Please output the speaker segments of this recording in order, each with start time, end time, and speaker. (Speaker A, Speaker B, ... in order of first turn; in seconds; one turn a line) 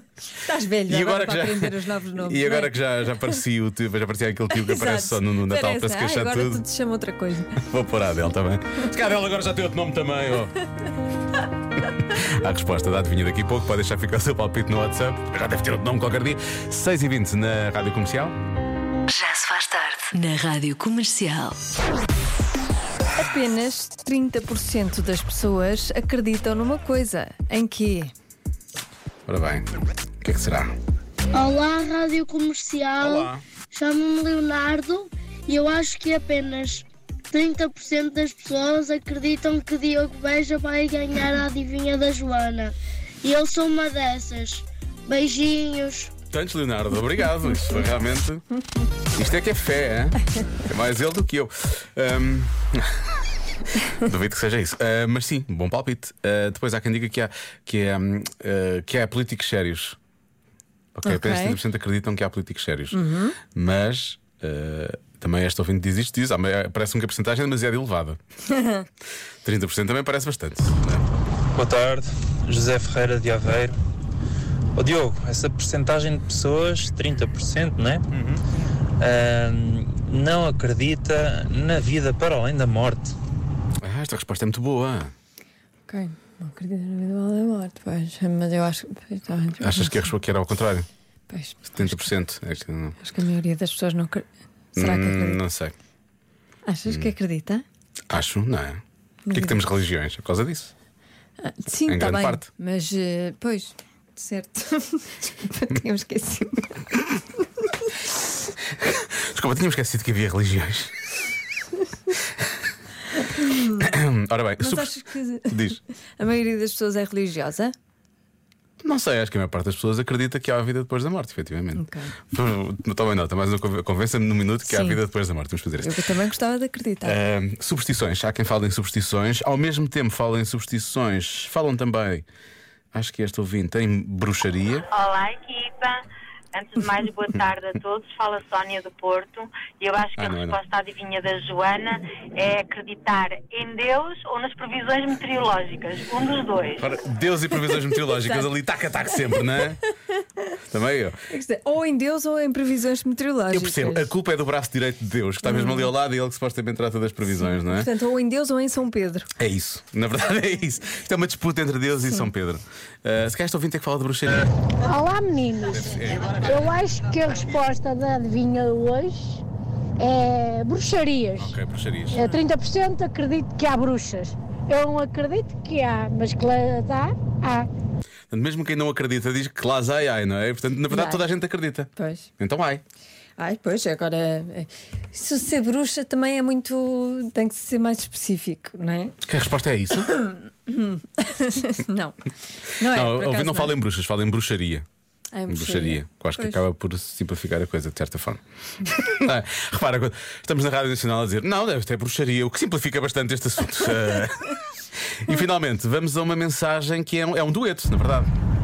Speaker A: 0.3-2.8
Speaker B: 0.9-6.6
Speaker A: 4.6-7.5
Speaker B: 7.6-10.6
Speaker B: 12.2-18.4
Speaker C: 19.1-21.6
Speaker A: 23.2-28.1
Speaker B: 29.3-29.7
Speaker B: 30.2-30.8
Speaker D: 31.3-46.1
Speaker B: 33.0-33.4
Speaker B: 46.3-48.4
Speaker B: 49.1-52.8
Speaker B: 54.0-60.0
Speaker B: 61.0-68.2
Speaker A: 61.0-61.6
Speaker A: 62.9-63.4
Speaker B: 69.4-71.1
Speaker E: 71.6-73.8
Speaker E: 74.8-78.0
Speaker B: 78.1-78.4
Speaker E: 79.0-83.1
Speaker B: 83.8-85.1
Speaker A: 85.9-90.0
Speaker B: 89.6-90.9
Speaker A: 91.3-92.1
Speaker B: 91.7-93.0
Speaker A: 93.0-95.4
Speaker B: 94.8-95.7
Speaker A: 96.7-97.6
Speaker B: 98.1-98.8
Speaker A: 99.3-99.6
Speaker B: 99.3-100.7
Speaker A: 101.4-106.7
Speaker B: 101.9-102.4
Speaker B: 108.8-110.9
Speaker B: 113.8-114.9
Speaker A: 114.6-117.7
Speaker B: 115.5-115.8
Speaker B: 118.8-125.9
Speaker A: 121.8-122.2
Speaker A: 124.7-125.0
Speaker A: 125.8-127.2
Speaker B: 127.1-132.2
Speaker B: 132.9-134.9
Speaker F: 134.9-136.0
Speaker F: 136.5-146.8
Speaker B: 140.2-140.6
Speaker B: 146.8-149.8
Speaker A: 147.9-148.5
Speaker B: 150.7-151.2
Speaker A: 151.3-154.1
Speaker B: 153.5-157.9
Speaker A: 155.4-155.9
Speaker A: 157.3-159.3
Speaker B: 159.4-164.5
Speaker G: 164.8-169.4
Speaker B: 165.7-166.7
Speaker G: 170.0-171.5
Speaker B: 171.4-172.2
Speaker G: 172.1-177.7
Speaker B: 178.3-182.8
Speaker A: 180.9-181.2
Speaker A: 182.0-182.3
Speaker A: 183.4-189.2
Speaker B: 189.3-190.1
Speaker A: 190.2-192.2
Speaker A: 192.8-193.8
Speaker B: 192.9-194.9
Speaker A: 195.3-196.6
Speaker B: 195.5-204.5
Speaker B: 205.2-208.3